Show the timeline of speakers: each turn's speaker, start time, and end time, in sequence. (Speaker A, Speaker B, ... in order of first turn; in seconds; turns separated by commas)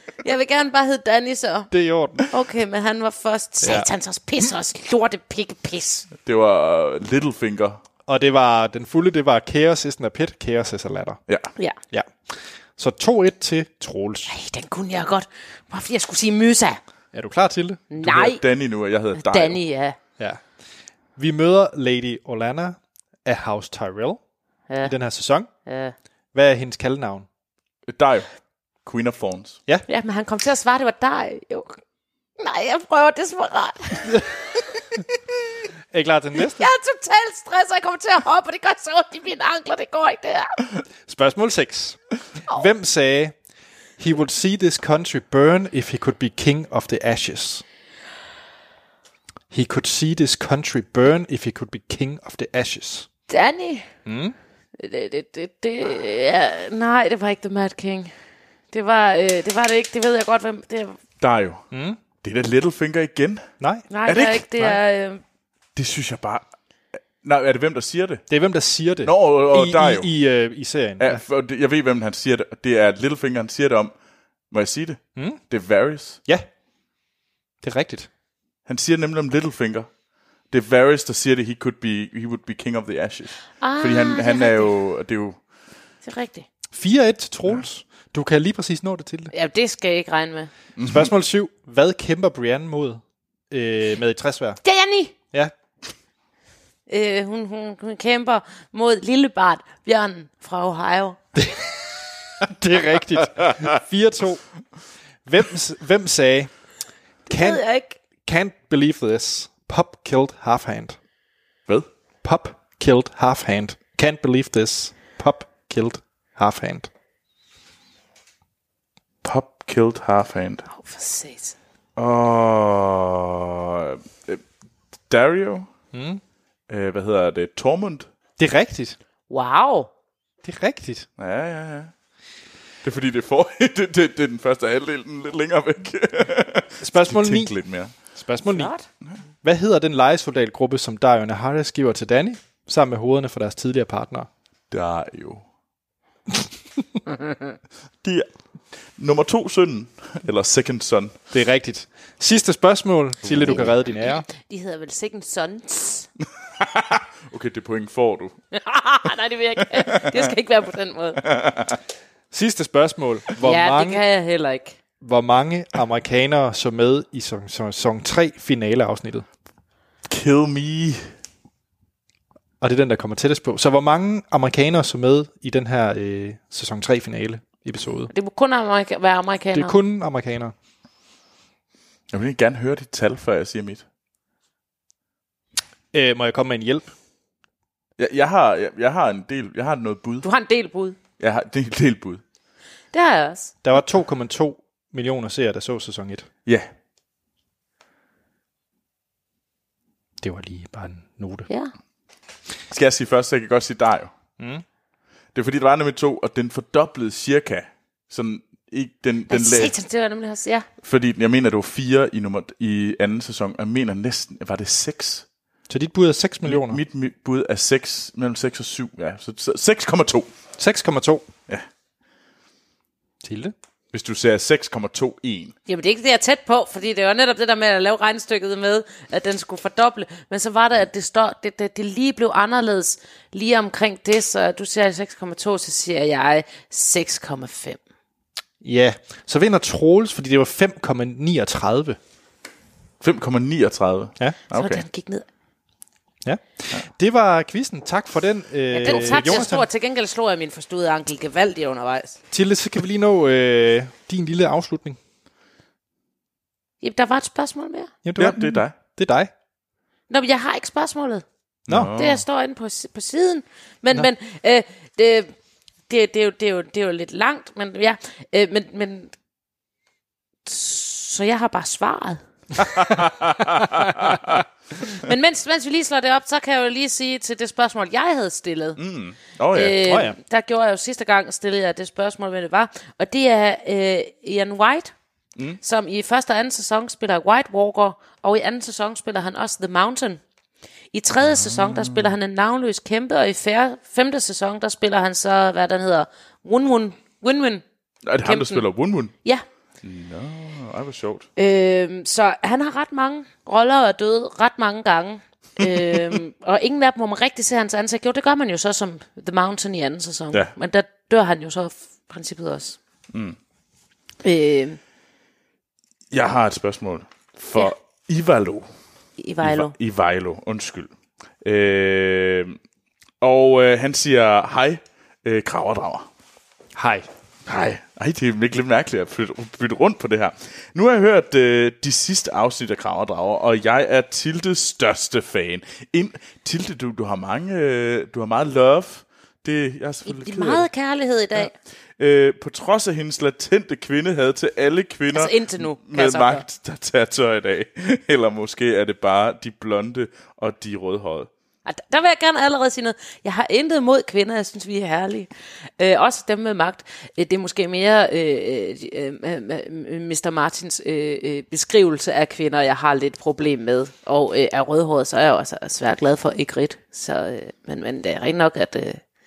Speaker A: 0.2-1.7, Speaker B: 1.7-2.2, Speaker A: 2.3-6.1, Speaker B: 3.6-3.9, Speaker C: 6.2-7.8, Speaker B: 8.1-11.2, Speaker B: 11.9-14.3, Speaker A: 14.3-16.8, Speaker B: 17.1-17.9, Speaker A: 17.9-18.4, Speaker C: 18.0-19.6, Speaker A: 19.1-20.0, Speaker B: 21.1-24.2, Speaker B: 24.8-25.5, Speaker A: 25.6-25.9, Speaker B: 26.3-27.3, Speaker C: 27.9-28.3, Speaker C: 28.8-29.6, Speaker A: 29.9-31.8, Speaker A: 32.4-34.6, Speaker B: 35.9-36.6, Speaker A: 36.5-40.6, Speaker B: 41.1-43.3, Speaker B: 44.0-47.6, Speaker B: 49.5-53.1, Speaker A: 53.3-53.9, Speaker B: 54.0-54.4, Speaker A: 54.8-58.1, Speaker A: 58.7-61.0, Speaker C: 61.2-61.6, Speaker B: 61.7-62.0, Speaker C: 62.2-63.5, Speaker B: 63.6-63.9, Speaker A: 63.9-65.2, Speaker C: 64.0-64.5, Speaker C: 65.8-66.5, Speaker C: 67.2-68.2, Speaker B: 68.3-71.2, Speaker C: 69.0-70.1, Speaker C: 71.0-73.9, Speaker C: 74.5-76.2, Speaker B: 75.2-75.4, Speaker B: 77.6-78.1, Speaker C: 78.7-79.9, Speaker C: 80.5-85.4, Speaker A: 83.6-84.7, Speaker A: 86.0-86.5, Speaker B: 86.7-89.3, Speaker A: 89.3-90.5, Speaker C: 90.8-91.1, Speaker B: 90.8-94.6, Speaker A: 94.6-95.1, Speaker A: 96.9-101.2, Speaker B: 102.4-104.4, Speaker B: 105.2-106.5, Speaker A: 107.3-108.0, Speaker B: 107.3-107.6, Speaker B: 108.2-111.0, Speaker B: 112.2-116.9, Speaker C: 119.2-120.7, Speaker A: 120.7-121.5, Speaker C: 122.0-124.4, Speaker C: 125.1-125.7, Speaker B: 125.9-126.2, Speaker C: 126.7-128.1, Speaker B: 128.4-129.0, Speaker A: 129.3-129.9, Speaker B: 130.4-131.1, Speaker C: 131.2-131.9, Speaker C: 132.8-137.9, Speaker B: 136.8-138.7, Speaker A: 138.4-138.8, Speaker B: 139.4-144.3, Speaker C: 144.7-145.4, Speaker C: 148.0-151.1, Speaker B: 151.3-154.2, Speaker C: 153.3-153.6, Speaker A: 153.4-156.1, Speaker C: 156.6-158.4, Speaker A: 158.5-161.2, Speaker C: 159.7-160.3, Speaker C: 161.2-161.8, Speaker B: 162.3-164.0, Speaker A: 163.4-164.8, Speaker B: 165.0-169.2, Speaker C: 170.1-171.1, Speaker B: 172.6-178.1, Speaker A: 178.1-179.8, Speaker B: 179.5-180.5, Speaker C: 182.1-183.8, Speaker B: 185.9-186.9, Speaker C: 188.0-190.3, Speaker A: 190.2-191.0, Speaker C: 191.2-192.2, Speaker A: 192.9-193.5, Speaker B: 193.6-196.3, Speaker C: 196.4-196.7, Speaker B: 200.2-201.5, Speaker C: 202.7-204.1, Speaker B: 204.4-204.6, Speaker C: 205.3-209.7, Speaker A: 209.3-210.7, Speaker C: 210.8-215.2, Speaker B: 215.7-216.8, Speaker C: 216.4-220.3, Speaker B: 220.6-221.2, Speaker B: 223.2-223.5, Speaker C: 223.9-225.5, Speaker A: 225.7-237.8, Speaker B: 238.6-242.0, Speaker C: 243.0-244.8, Speaker A: 244.5-245.2, Speaker B: 246.2-249.7, Speaker A: 248.7-252.2, Speaker C: 248.9-249.3, Speaker B: 252.3-255.0, Speaker A: 256.8-257.9, Speaker B: 258.0-259.3, Speaker C: 258.2-258.7, Speaker A: 260.1-261.2, Speaker C: 261.7-262.2, Speaker A: 261.9-265.3, Speaker A: 265.9-269.1, Speaker A: 270.4-272.9, Speaker C: 272.8-274.4, Speaker A: 274.8-278.8, Speaker C: 278.8-279.9, Speaker A: 279.5-284.9, Speaker B: 279.9-280.1, Speaker A: 285.6-290.2, Speaker A: 290.9-297.6, Speaker C: 291.2-292.1, Speaker C: 298.0-299.1, Speaker A: 298.2-298.6, Speaker C: 299.8-301.3, Speaker A: 301.4-312.8, Speaker C: 305.6-306.1, Speaker C: 313.1-313.4, Speaker A: 314.2-314.8, Speaker C: 316.1-318.7, Speaker A: 319.2-319.7, Speaker C: 319.4-322.6, Speaker C: 323.2-326.1, Speaker B: 326.8-327.1, Speaker C: 327.4-340.7, Speaker A: 340.1-341.5, Speaker C: 342.0-351.3, Speaker A: 345.1-346.4, Speaker A: 351.6-369.0